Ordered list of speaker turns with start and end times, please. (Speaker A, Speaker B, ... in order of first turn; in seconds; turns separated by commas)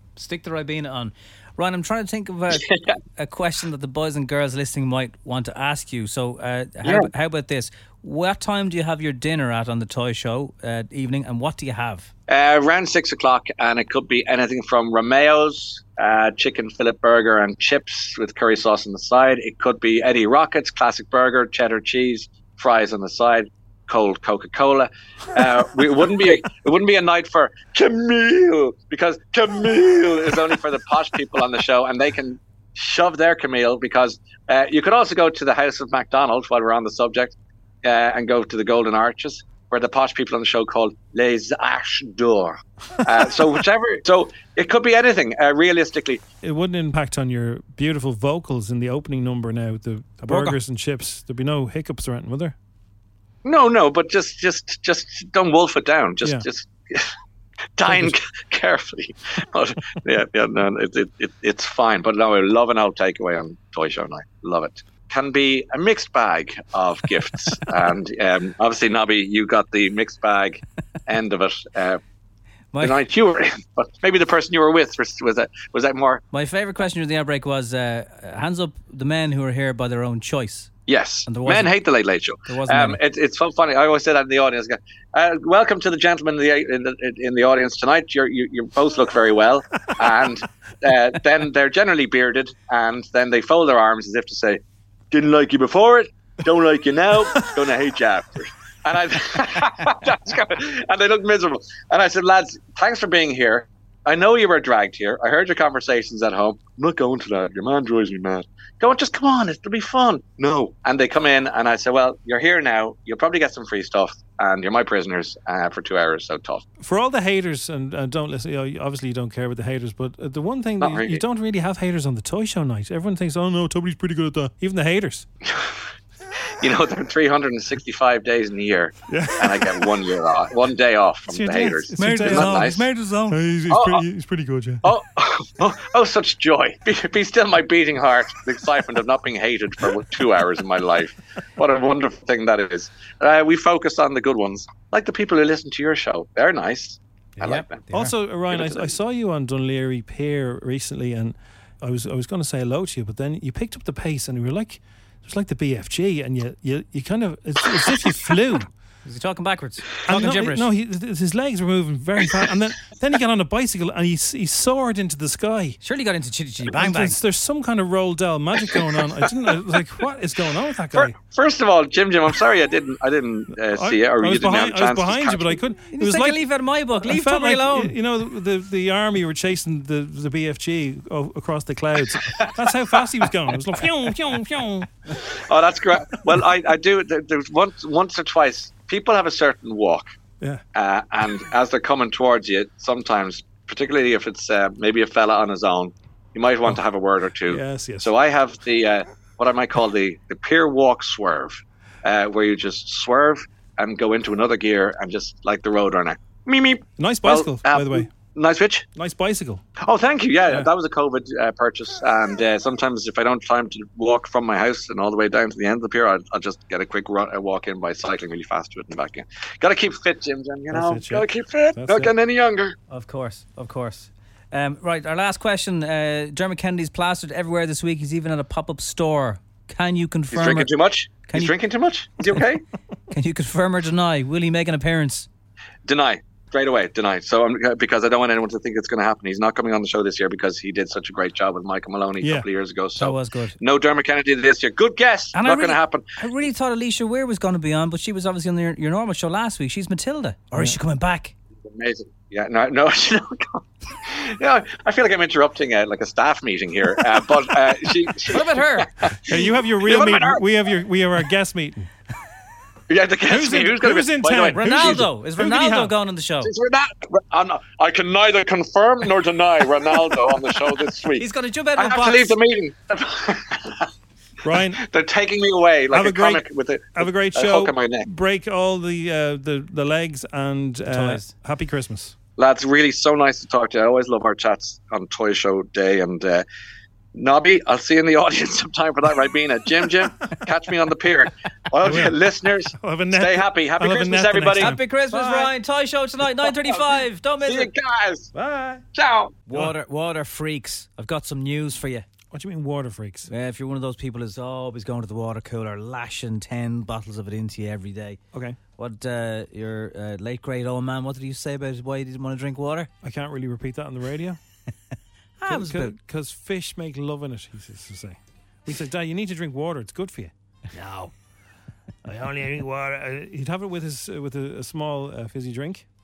Speaker A: 0.2-12.1, Speaker B: 2.5-2.9, Speaker B: 6.8-7.1, Speaker B: 12.3-46.2, Speaker C: 46.4-52.5, Speaker A: 50.3-50.6, Speaker B: 53.4-57.1, Speaker B: 57.8-72.0, Speaker C: 57.9-58.1, Speaker A: 72.7-73.0, Speaker B: 72.8-76.2, Speaker A: 76.3-80.7, Speaker B: 80.9-116.6, Speaker A: 81.3-81.7, Speaker A: 82.5-83.0, Speaker C: 116.8-125.3, Speaker B: 120.8-121.2, Speaker B: 125.5-125.8, Speaker B: 126.6-132.9, Speaker C: 129.1-129.9, Speaker C: 131.3-132.8, Speaker A: 132.0-133.4, Speaker C: 133.3-134.9, Speaker B: 133.7-134.0, Speaker B: 134.8-147.9, Speaker A: 147.4-148.1, Speaker C: 147.9-158.7, Speaker B: 148.5-148.9, Speaker A: 159.0-160.7, Speaker C: 160.1-165.8, Speaker A: 165.8-167.2, Speaker C: 166.7-171.1, Speaker B: 168.7-169.3, Speaker B: 170.9-175.6, Speaker C: 173.6-176.4, Speaker A: 175.9-177.9, Speaker C: 177.0-184.9, Speaker B: 182.1-183.3, Speaker B: 185.2-190.1, Speaker B: 190.7-208.9, Speaker C: 197.5-198.1, Speaker C: 207.0-208.1, Speaker C: 208.9-209.6, Speaker B: 209.8-222.7, Speaker C: 220.7-222.1, Speaker A: 222.9-230.7, Speaker B: 230.3-232.6, Speaker A: 231.3-231.6, Speaker A: 233.1-235.3, Speaker B: 235.8-246.0, Speaker C: 242.2-242.5, Speaker A: 243.0-243.6, Speaker A: 245.3-251.3, Speaker B: 251.6-260.4, Speaker A: 258.3-258.9, Speaker C: 259.3-261.9, Speaker B: 262.9-265.0, Speaker C: 263.3-265.9, Speaker A: 264.5-266.5, Speaker B: 266.4-273.8, Speaker A: 271.1-272.4, Speaker C: 274.4-274.8, Speaker B: 274.7-278.1, Speaker C: 275.9-282.1, Speaker A: 280.9-281.3, Speaker B: 282.4-286.4, Speaker B: 287.1-294.8, Speaker C: 291.8-295.5, Speaker A: 294.6-297.7, Speaker B: 297.4-298.3, Speaker C: 298.3-298.8, Speaker B: 298.9-299.4, Speaker A: 299.5-302.1, Speaker C: 302.3-303.3, Speaker A: 303.3-308.2, Speaker C: 308.3-308.6, Speaker A: 308.8-312.9, Speaker C: 313.0-314.4, Speaker A: 315.4-315.9, Speaker C: 315.4-321.1, Speaker C: 322.1-325.9